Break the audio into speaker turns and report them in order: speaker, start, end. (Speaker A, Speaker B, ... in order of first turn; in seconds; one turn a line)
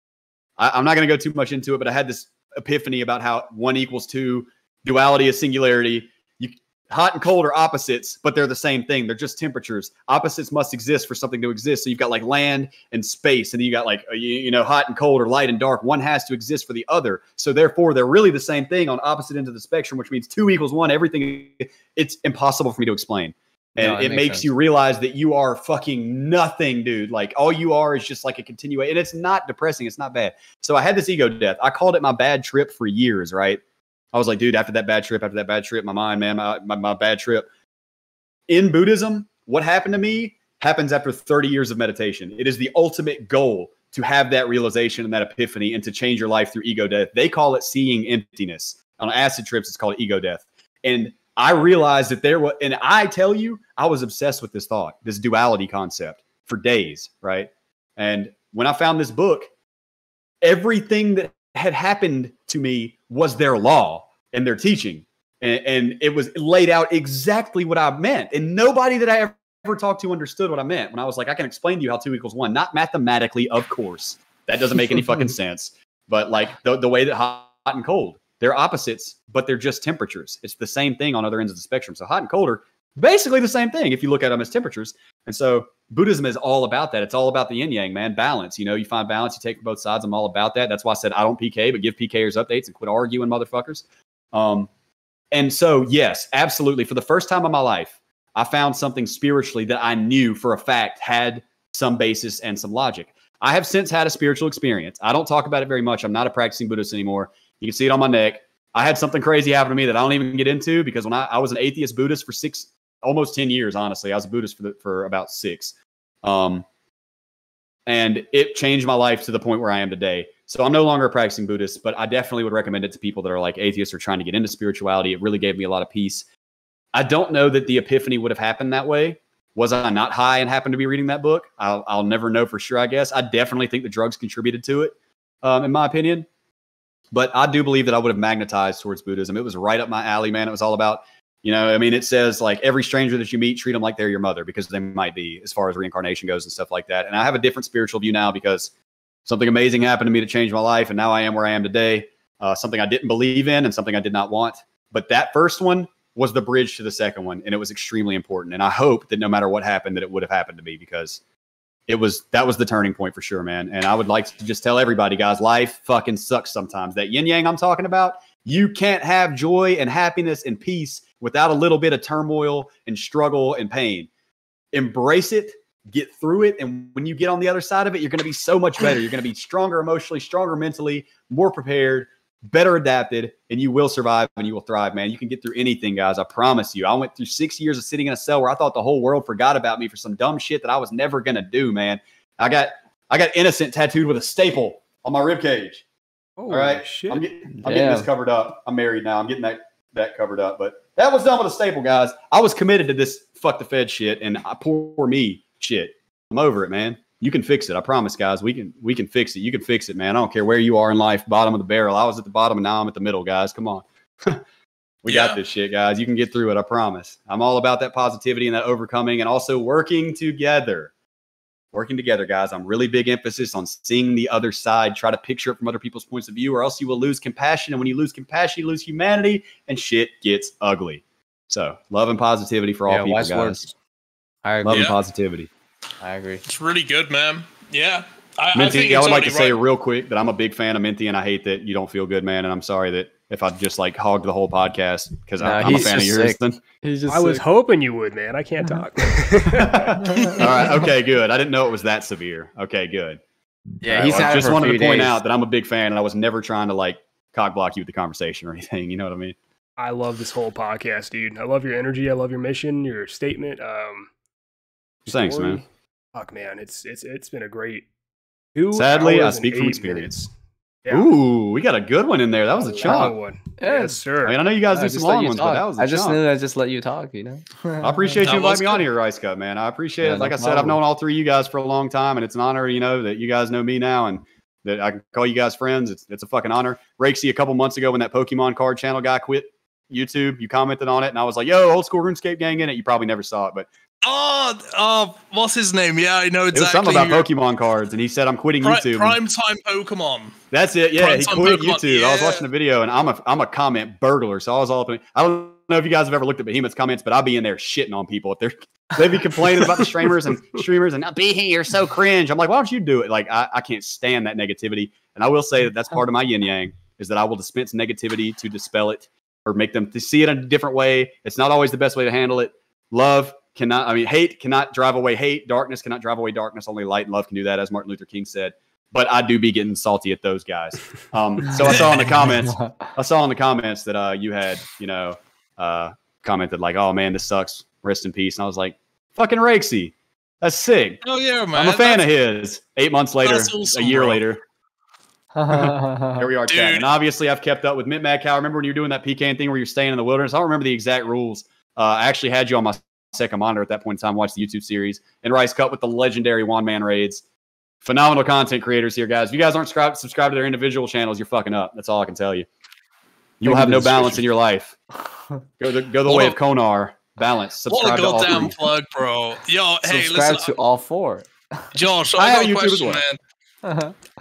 Speaker A: 0.6-33.6
Speaker B: 23.8-24.5
Speaker A: 34.1-37.5
Speaker A: 38.5-59.5
Speaker A: 60.4-94.7
Speaker A: 95.3-116.6
Speaker A: 117.9-126.2
Speaker A: 126.9-136.2
Speaker A: 137.1-148.7
Speaker A: 149.2-161.2
Speaker A: 161.9-174.1
Speaker A: 174.7-195.8
Speaker C: 196.4-197.2
Speaker A: 196.5-214.4
Speaker B: 197.6-198.1
Speaker A: 215.0-220.9
Speaker D: 215.1-215.4
Speaker A: 221.7-233.6
Speaker B: 232.9-233.7
Speaker B: 234.4-234.9
Speaker A: 234.6-235.5
Speaker D: 234.7-235.0
Speaker B: 236.0-236.4
Speaker D: 236.4-239.6
Speaker A: 238.5-246.6
Speaker B: 245.4-247.4
Speaker C: 247.1-250.6
Speaker A: 249.6-253.2
Speaker B: 253.8-255.2
Speaker A: 253.9-259.4
Speaker C: 259.8-264.1
Speaker C: 265.1-265.6
Speaker A: 265.1-265.6
Speaker C: 266.1-267.9
Speaker C: 268.5-270.3
Speaker A: 268.7-270.1
Speaker C: 270.8-271.1
Speaker A: 270.9-273.1
Speaker C: 272.6-274.4
Speaker B: 272.9-274.1
Speaker A: 274.2-276.2
Speaker B: 274.7-277.9
Speaker A: 277.8-293.7
Speaker D: 278.2-278.8
Speaker B: 280.0-280.8
Speaker D: 294.0-297.3
Speaker A: 296.5-299.2
Speaker D: 298.6-300.4
Speaker A: 300.5-341.0
Speaker D: 300.9-302.4
Speaker D: 331.7-332.1
Speaker D: 341.0-342.1
Speaker A: 341.5-344.4
Speaker D: 343.2-344.2
Speaker B: 345.4-346.2
Speaker A: 345.5-357.2
Speaker D: 346.5-346.9
Speaker A: 357.8-362.4
Speaker A: 363.4-364.8
Speaker B: 363.4-364.2
Speaker A: 365.6-368.6
Speaker D: 366.1-366.4
Speaker D: 367.7-370.5
Speaker B: 369.8-371.6
Speaker D: 371.7-373.2
Speaker A: 372.1-373.0
Speaker B: 373.6-373.9